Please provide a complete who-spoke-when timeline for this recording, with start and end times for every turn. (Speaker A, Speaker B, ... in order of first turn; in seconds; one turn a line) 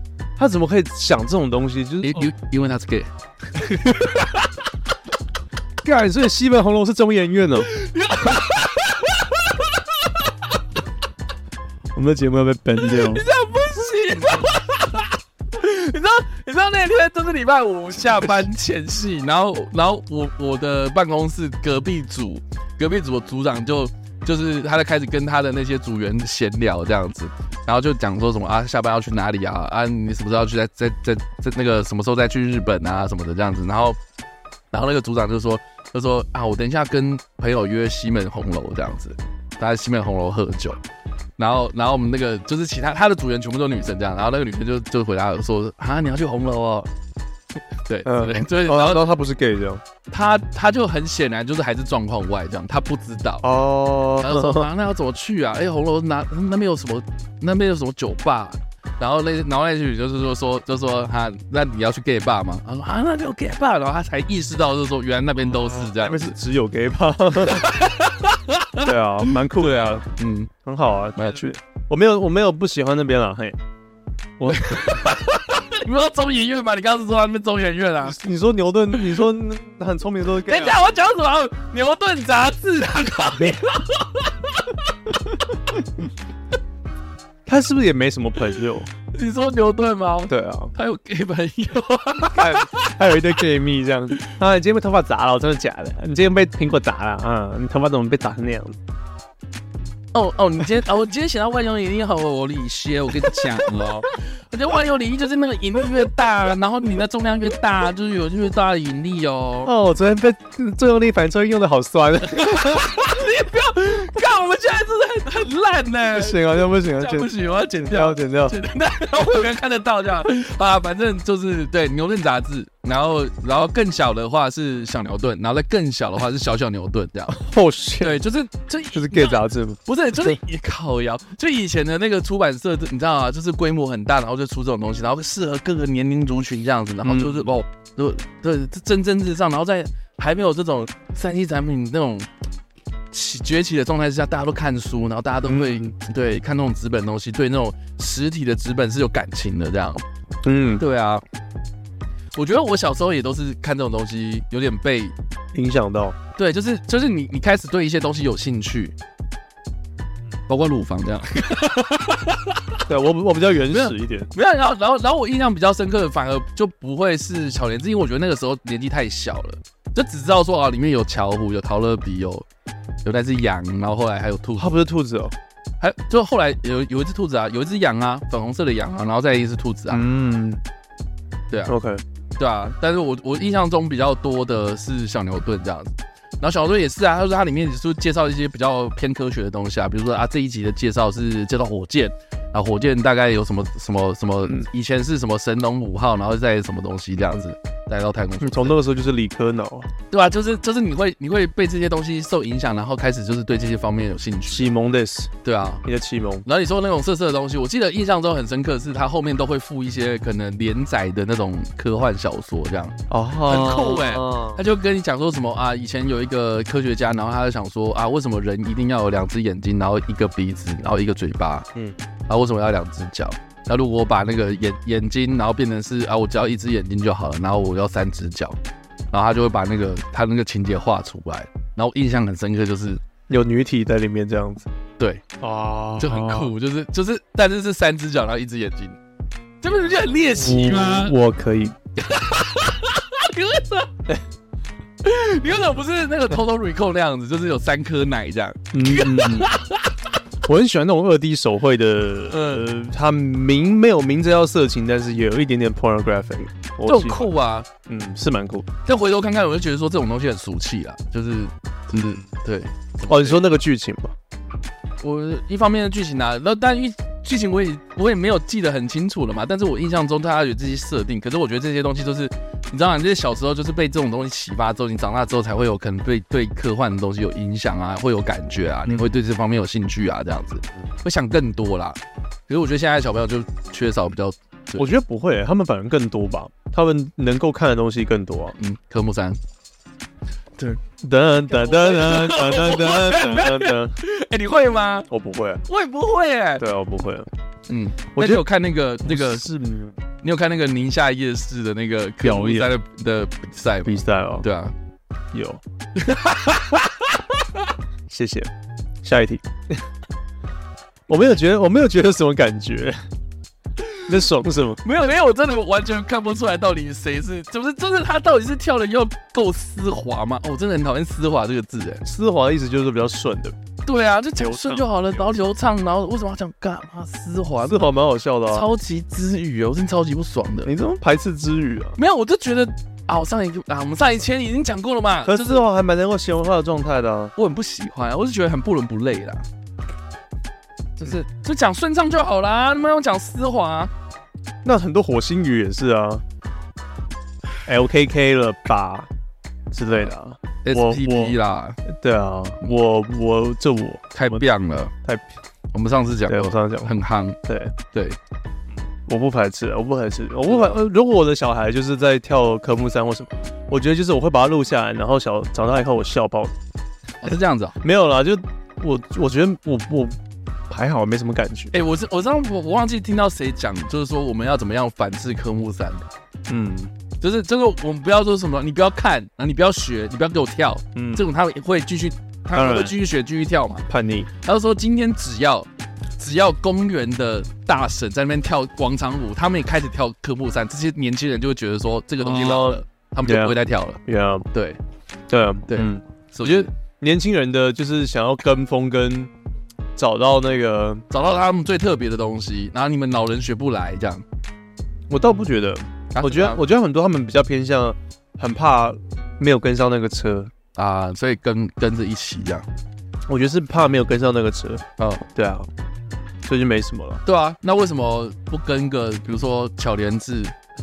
Speaker A: 0.4-2.3
Speaker B: 2.0-4.5
Speaker A: 5.8-7.8
Speaker B: 7.7-10.3
Speaker A: 11.9-13.2
Speaker B: 12.8-34.0
Speaker B: 34.7-40.8
Speaker B: 41.4-46.9
Speaker B: 47.9-49.1
Speaker A: 48.0-49.8
Speaker B: 50.1-53.4
Speaker A: 53.4-54.7
Speaker B: 54.2-66.3
Speaker A: 65.8-67.7
Speaker B: 67.4-70.5
Speaker A: 68.8-70.0
Speaker A: 70.6-73.6
Speaker B: 71.2-71.5
Speaker A: 74.4-75.0
Speaker B: 74.5-78.2
Speaker A: 78.0-80.8
Speaker B: 80.4-85.2
Speaker A: 87.5-88.9
Speaker B: 89.1-92.9
Speaker A: 90.3-90.7
Speaker A: 92.3-98.8
Speaker B: 100.1-109.7
Speaker A: 109.6-112.9
Speaker B: 112.3-127.4
Speaker A: 116.1-117.3
Speaker A: 117.8-118.6
Speaker A: 127.3-128.2
Speaker B: 128.0-142.3
Speaker A: 128.9-129.8
Speaker A: 137.0-137.5
Speaker B: 143.1-150.0
Speaker A: 145.4-145.9
Speaker A: 150.4-150.8
Speaker B: 150.8-151.2
Speaker B: 152.3-155.1
Speaker A: 155.5-156.2
Speaker B: 156.4-158.9
Speaker B: 160.5-162.8
Speaker A: 162.9-164.3
Speaker B: 163.7-172.4
Speaker B: 173.0-174.8
Speaker A: 174.6-175.3
Speaker B: 175.8-180.0
Speaker A: 179.9-180.6
Speaker A: 181.7-182.0
Speaker B: 182.4-198.8
Speaker A: 198.4-199.9
Speaker B: 200.1-204.7
Speaker A: 204.5-205.3
Speaker B: 205.4-205.8
Speaker A: 205.8-206.4
Speaker B: 206.4-221.7
Speaker A: 213.1-214.6
Speaker B: 222.3-228.6
Speaker B: 229.1-233.0
Speaker A: 233.3-234.7
Speaker B: 235.0-235.2
Speaker A: 235.4-236.5
Speaker B: 236.0-239.0
Speaker B: 239.6-241.2
Speaker A: 240.3-241.8
Speaker B: 242.0-243.9
Speaker B: 245.0-250.0
Speaker A: 248.7-249.5
Speaker A: 250.4-257.3
Speaker B: 252.3-252.7
Speaker B: 256.8-257.7
Speaker A: 257.9-258.7
Speaker B: 258.9-263.4
Speaker A: 263.1-264.1
Speaker B: 265.0-284.9
Speaker A: 284.8-288.6
Speaker B: 288.6-289.4
Speaker A: 291.0-293.9
Speaker B: 291.5-295.1
Speaker A: 295.1-295.6
Speaker B: 295.6-296.6
Speaker A: 296.6-297.3
Speaker B: 297.7-299.5
Speaker A: 298.1-298.5
Speaker A: 299.1-299.9
Speaker B: 300.2-304.8
Speaker A: 302.2-302.7
Speaker A: 303.9-304.5
Speaker A: 305.3-305.6
Speaker B: 305.9-307.6
Speaker A: 308.1-308.5
Speaker A: 309.0-309.9
Speaker A: 311.1-313.0
Speaker A: 314.0-314.8
Speaker B: 314.8-322.0
Speaker A: 322.0-323.6
Speaker B: 323.9-327.9
Speaker A: 324.4-325.2
Speaker A: 327.6-328.7
Speaker B: 328.5-330.7
Speaker A: 330.6-332.0
Speaker B: 332.0-335.6
Speaker A: 335.2-337.3
Speaker B: 337.4-339.4
Speaker B: 341.0-343.9
Speaker A: 344.6-346.2
Speaker A: 347.6-349.1
Speaker A: 349.7-354.4
Speaker B: 350.6-351.8
Speaker B: 354.1-354.9
Speaker B: 355.7-357.4
Speaker A: 356.3-357.8
Speaker B: 357.9-358.2
Speaker A: 359.1-366.5
Speaker B: 360.5-360.8
Speaker B: 367.2-367.8
Speaker A: 367.8-370.2
Speaker A: 370.7-371.8
Speaker B: 371.7-376.1
Speaker A: 376.5-376.9
Speaker B: 377.2-383.9
Speaker A: 380.9-381.3
Speaker A: 382.6-382.9
Speaker A: 383.9-384.3
Speaker B: 384.4-394.0
Speaker A: 392.2-394.5
Speaker B: 394.5-394.8
Speaker A: 395.3-399.3
Speaker B: 395.7-396.7
Speaker A: 399.9-401.1
Speaker B: 401.1-404.2
Speaker A: 405.1-410.5
Speaker B: 406.1-406.6
Speaker B: 410.8-412.7
Speaker A: 413.3-415.7
Speaker B: 415.0-415.2
Speaker A: 416.4-417.2
Speaker B: 417.2-420.6